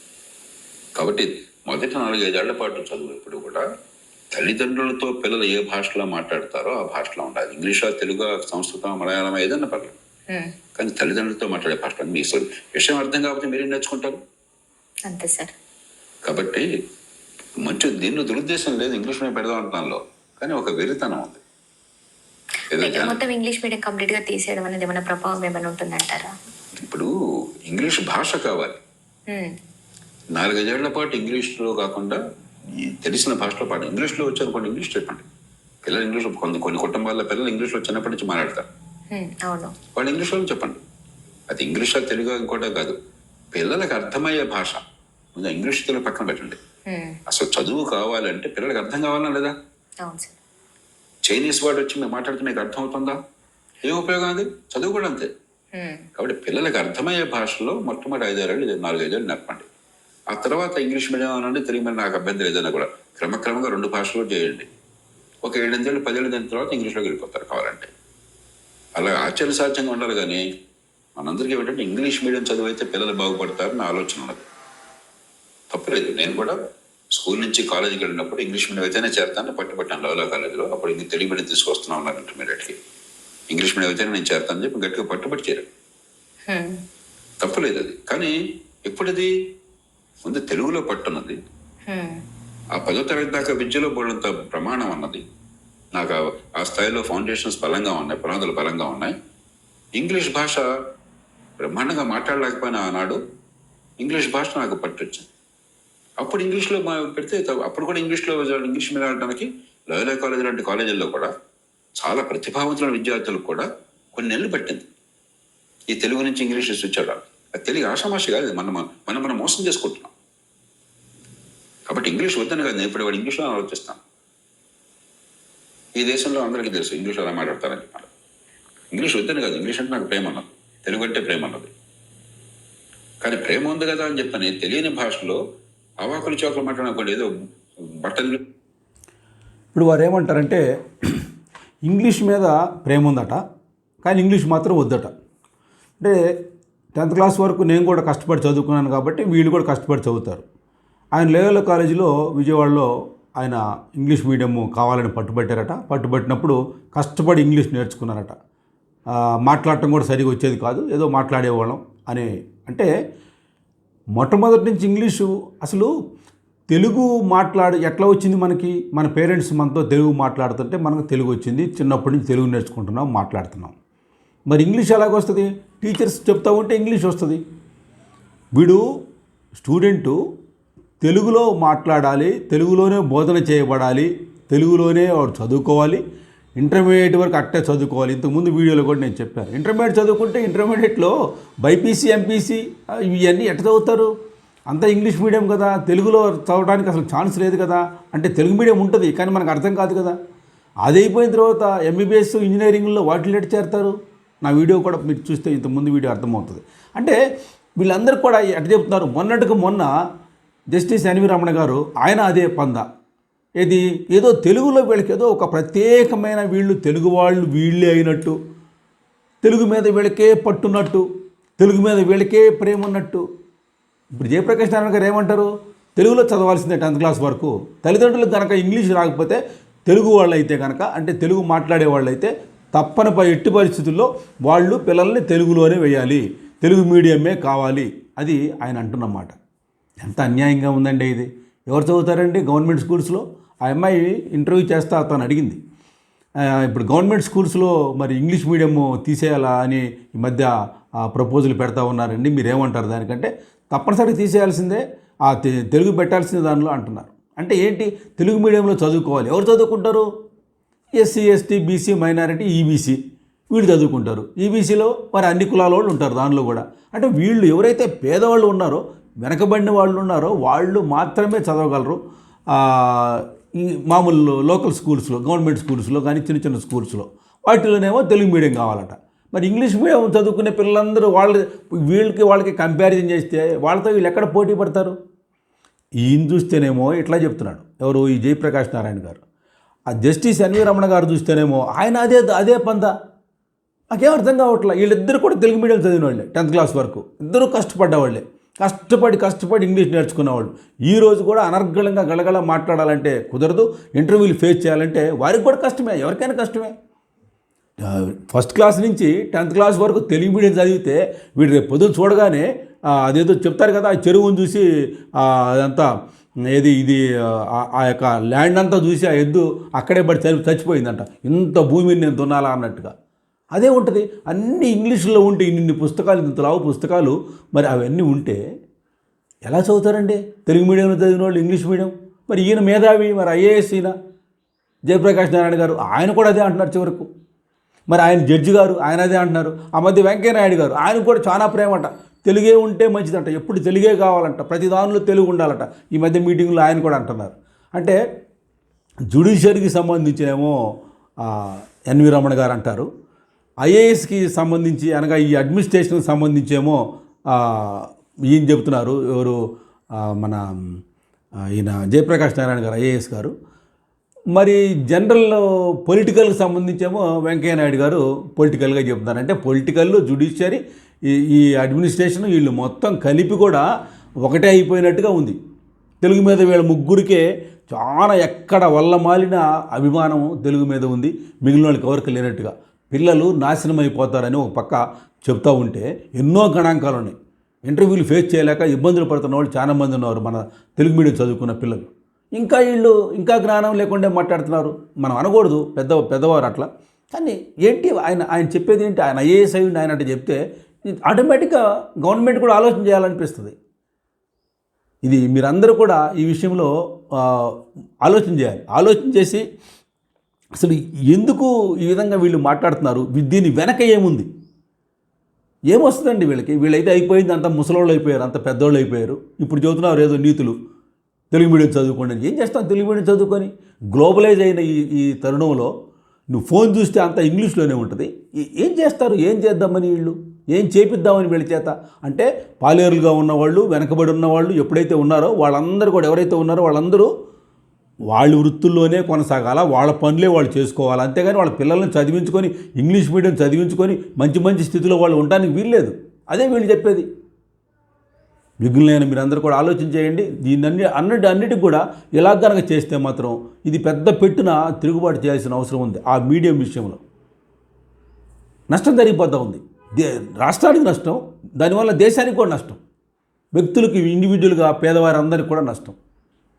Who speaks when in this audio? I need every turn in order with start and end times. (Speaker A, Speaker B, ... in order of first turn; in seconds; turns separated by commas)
Speaker A: 1.0-3.6, Speaker A: 4.3-10.0, Speaker A: 10.8-14.2, Speaker B: 15.1-15.5, Speaker A: 16.3-16.6, Speaker A: 17.6-21.4, Speaker A: 22.7-23.2, Speaker B: 22.8-26.3, Speaker A: 26.8-27.1, Speaker A: 27.7-28.8, Speaker A: 30.4-32.2, Speaker A: 32.7-35.3, Speaker A: 35.9-38.7, Speaker B: 39.1-39.7, Speaker A: 40.0-40.8, Speaker A: 41.5-43.0, Speaker A: 43.5-44.8, Speaker A: 45.4-46.6, Speaker B: 46.9-47.1, Speaker A: 47.3-49.5, Speaker B: 50.0-50.4, Speaker A: 51.2-53.2, Speaker A: 53.8-55.3, Speaker B: 55.7-56.0, Speaker A: 56.2-59.7, Speaker A: 60.3-64.7, Speaker A: 65.4-67.9, Speaker A: 69.0-70.4, Speaker A: 71.2-74.4, Speaker A: 75.7-76.6, Speaker A: 77.2-82.8, Speaker A: 83.5-85.7, Speaker B: 86.5-86.8, Speaker A: 87.4-88.3, Speaker A: 88.9-89.3, Speaker A: 90.2-91.4, Speaker B: 91.9-92.1, Speaker A: 92.7-95.2, Speaker A: 96.0-99.1, Speaker A: 100.0-100.6, Speaker A: 101.6-103.2, Speaker A: 104.0-105.3, Speaker A: 106.2-111.3, Speaker A: 112.0-114.9, Speaker A: 115.9-120.1, Speaker A: 121.9-124.0, Speaker A: 126.0-128.1, Speaker A: 128.9-131.7, Speaker A: 133.2-135.4, Speaker A: 136.0-137.3, Speaker A: 138.0-138.4, Speaker C: 139.7-141.2, Speaker C: 141.9-143.4, Speaker C: 144.0-145.1, Speaker C: 147.0-150.4, Speaker C: 151.2-158.3, Speaker C: 159.5-162.9, Speaker C: 164.2-165.9, Speaker C: 166.7-173.8, Speaker C: 174.5-177.4, Speaker C: 178.6-178.8, Speaker C: 179.6-180.2, Speaker C: 181.0-186.0, Speaker C: 186.6-191.1, Speaker C: 191.6-194.1, Speaker C: 194.7-200.2, Speaker C: 200.9-207.2, Speaker C: 207.8-209.9, Speaker C: 210.7-212.8, Speaker C: 213.6-218.4, Speaker C: 219.4-221.1, Speaker C: 221.6-223.2, Speaker C: 224.2-239.4, Speaker C: 240.0-245.6, Speaker C: 246.6-250.5, Speaker C: 251.0-260.1, Speaker C: 261.0-263.0, Speaker C: 263.5-272.0, Speaker C: 272.5-285.0, Speaker C: 286.0-289.2, Speaker C: 289.9-292.9, Speaker C: 293.9-306.7, Speaker C: 307.9-312.5, Speaker C: 313.0-314.6, Speaker C: 315.2-315.9, Speaker C: 316.5-322.9, Speaker C: 323.5-328.4, Speaker C: 329.5-333.9, Speaker C: 334.9-337.1, Speaker C: 337.9-348.0, Speaker C: 349.1-350.5, Speaker C: 351.2-352.9, Speaker C: 353.6-356.8, Speaker C: 357.3-359.4, Speaker C: 361.6-363.3, Speaker C: 364.3-373.6, Speaker C: 374.2-375.4, Speaker C: 376.0-387.1, Speaker C: 387.7-400.4, Speaker C: 401.1-403.5, Speaker C: 405.1-406.7, Speaker C: 407.2-409.4, Speaker C: 410.6-414.3, Speaker C: 415.7-420.6, Speaker C: 421.3-425.7, Speaker C: 426.3-437.1, Speaker C: 438.1-447.1, Speaker C: 448.6-457.0, Speaker C: 458.7-462.8, Speaker C: 463.6-466.0